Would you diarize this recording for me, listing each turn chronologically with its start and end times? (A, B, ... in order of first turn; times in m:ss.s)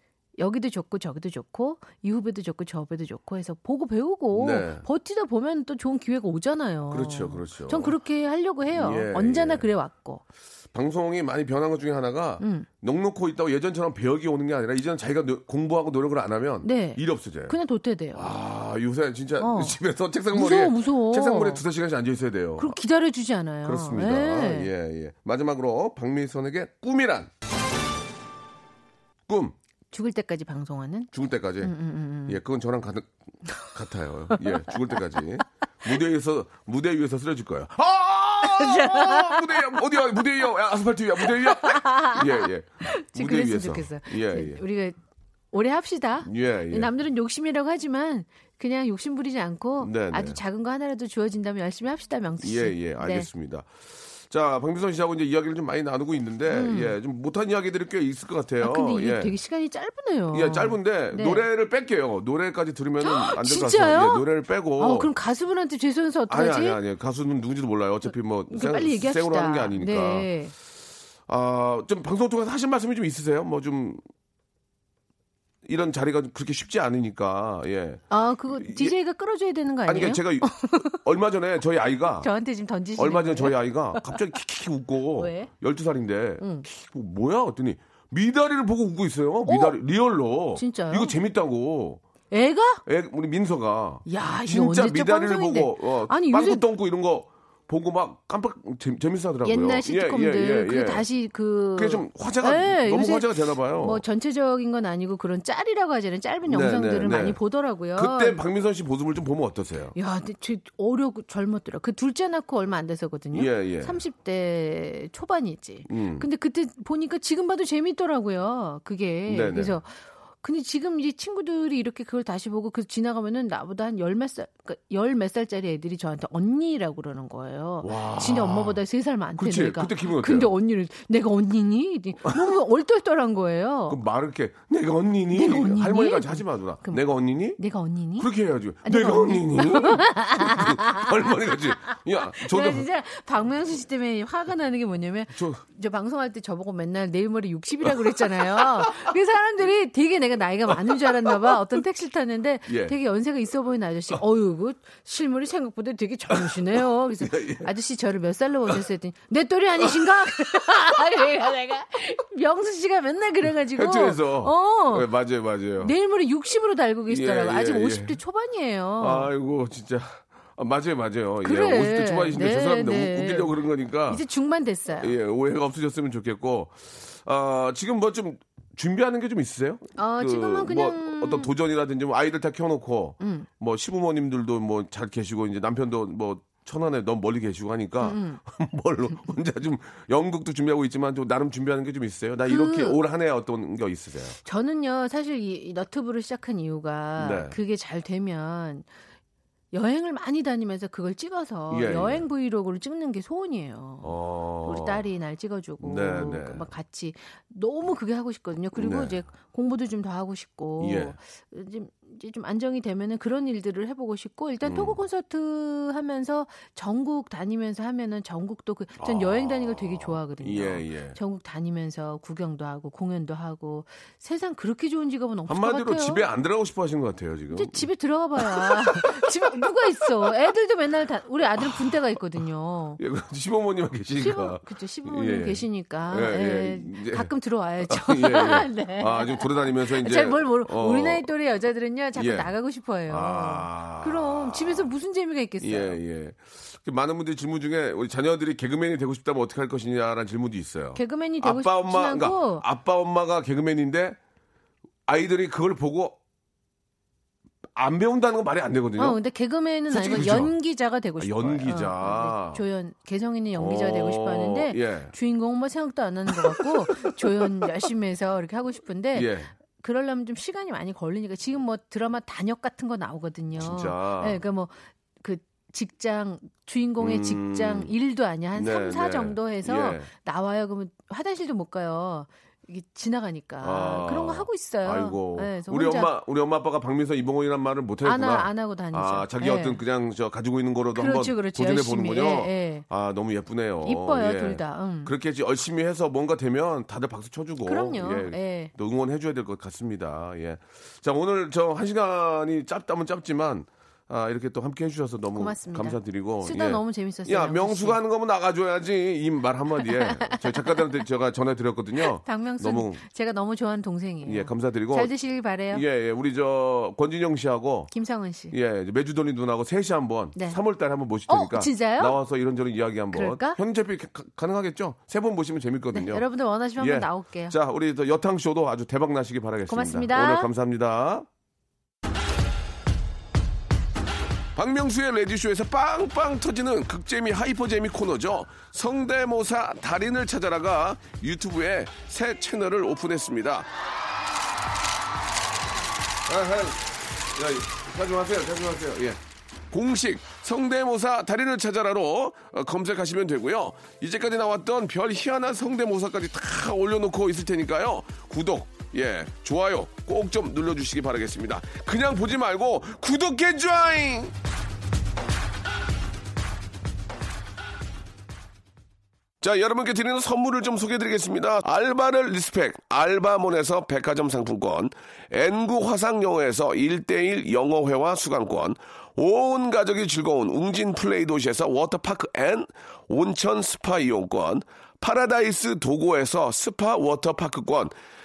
0:00.4-0:10.2 A
0:04.3-0:04.9 B
0:06.9-0:08.0 B
0:08.7-0:09.7 B
0:10.7-0:17.6 B
0:12.4-0:12.7 A
0:16.6-0:18.3 A
0:18.1-0:22.8 B
0:19.4-0:19.8 A
0:20.3-0:21.6 A
0:22.6-0:24.7 A
0:23.6-0:27.3 B
0:29.3-0:29.6 B
0:29.9-0:32.4 A
0:31.1-0:31.8 B
0:32.3-0:44.6 B
0:34.4-0:34.9 A
0:38.4-0:39.4 A
0:41.4-0:45.0 A
0:45.5-0:53.3 A
0:46.2-0:46.9 B
0:49.8-0:50.4 B
0:52.4-0:59.3 B
0:56.5-0:57.0 A
0:58.6-1:01.4 A
1:00.3-1:05.1 B
1:03.0-1:04.2 A
1:04.8-1:06.8 A
1:06.3-1:10.3 B
1:08.5-1:10.5 A
1:11.3-1:14.0 B
1:15.6-1:19.0 B
1:18.1-1:21.0 A
1:19.9-1:22.3 B
1:22.2-1:24.2 A
1:23.0-1:32.0 B
1:25.2-1:25.5 A
1:26.4-1:26.7 A
1:29.5-1:29.8 A
1:30.6-1:31.2 A
1:32.3-1:32.8 A
1:32.8-1:41.0 B
1:34.1-1:36.6 A
1:39.4-1:48.4 A
1:41.8-1:44.0 B
1:46.5-1:47.4 B
1:47.9-1:50.0 B
1:50.0-1:59.9 A
1:53.3-1:54.0 B
1:55.9-1:56.3 B
1:59.3-1:59.8 B
2:00.4-2:14.0 A
2:07.8-2:08.8 B
2:09.4-2:10.5 B
2:13.9-2:17.6 B
2:15.3-2:17.0 A
2:17.6-2:18.3 A
2:18.2-2:22.9 B
2:18.8-2:45.1 A
2:25.3-2:25.6 B
2:27.8-2:29.1 B
2:30.7-2:31.6 B
2:32.7-2:33.0 B
2:36.3-2:37.7 B
2:39.8-2:40.1 B
2:43.8-2:46.0 B
2:45.8-2:49.3 A
2:47.1-2:48.2 B
2:49.0-2:54.2 B
2:51.4-2:55.1 A
2:55.0-3:14.4 B
3:00.0-3:01.5 A
3:03.2-3:03.5 A
3:08.0-3:08.4 A
3:12.5-3:13.0 A
3:14.4-3:18.9 A
3:17.2-3:17.6 B
3:19.7-3:46.2 A
3:21.7-3:22.2 B
3:24.0-3:25.0 B
3:25.8-3:26.6 B
3:28.8-3:29.1 B
3:30.8-3:31.2 B
3:34.6-3:35.0 B
3:39.0-3:41.2 B
3:45.5-3:50.3 B
3:47.5-3:53.0 A
3:51.6-3:52.0 B
3:53.0-3:57.3 B
3:54.2-4:06.0 A
3:57.8-4:01.3 B
4:02.2-4:02.5 B
4:03.1-4:04.9 B
4:05.6-4:14.2 B
4:11.0-4:12.6 A
4:15.1-4:16.2 B
4:17.8-4:19.2 B
4:19.0-4:46.1 A
4:19.9-4:20.5 B
4:21.2-4:22.6 B
4:23.6-4:25.1 B
4:26.3-4:27.6 B
4:29.1-4:29.5 B
4:33.6-4:34.4 B
4:37.0-4:37.9 B
4:38.5-4:40.1 B
4:43.6-5:13.0 B
4:48.0-4:49.8 A
4:50.9-4:52.8 A
4:53.8-4:55.1 A
4:57.6-4:58.7 A
5:05.4-5:08.0 A
5:10.1-5:10.4 A
5:12.0-5:15.8 A
5:14.2-5:15.1 B
5:15.7-5:17.9 B
5:17.9-5:18.5 A
5:18.5-5:26.2 B
5:21.3-5:22.2 A
5:23.1-5:23.6 A
5:25.9-5:27.6 A
5:26.8-5:31.3 B
5:29.7-5:30.5 A
5:34.6-5:43.7 B
5:46.3-5:49.2 B
5:49.7-6:04.3 B
6:09.4-6:27.9 B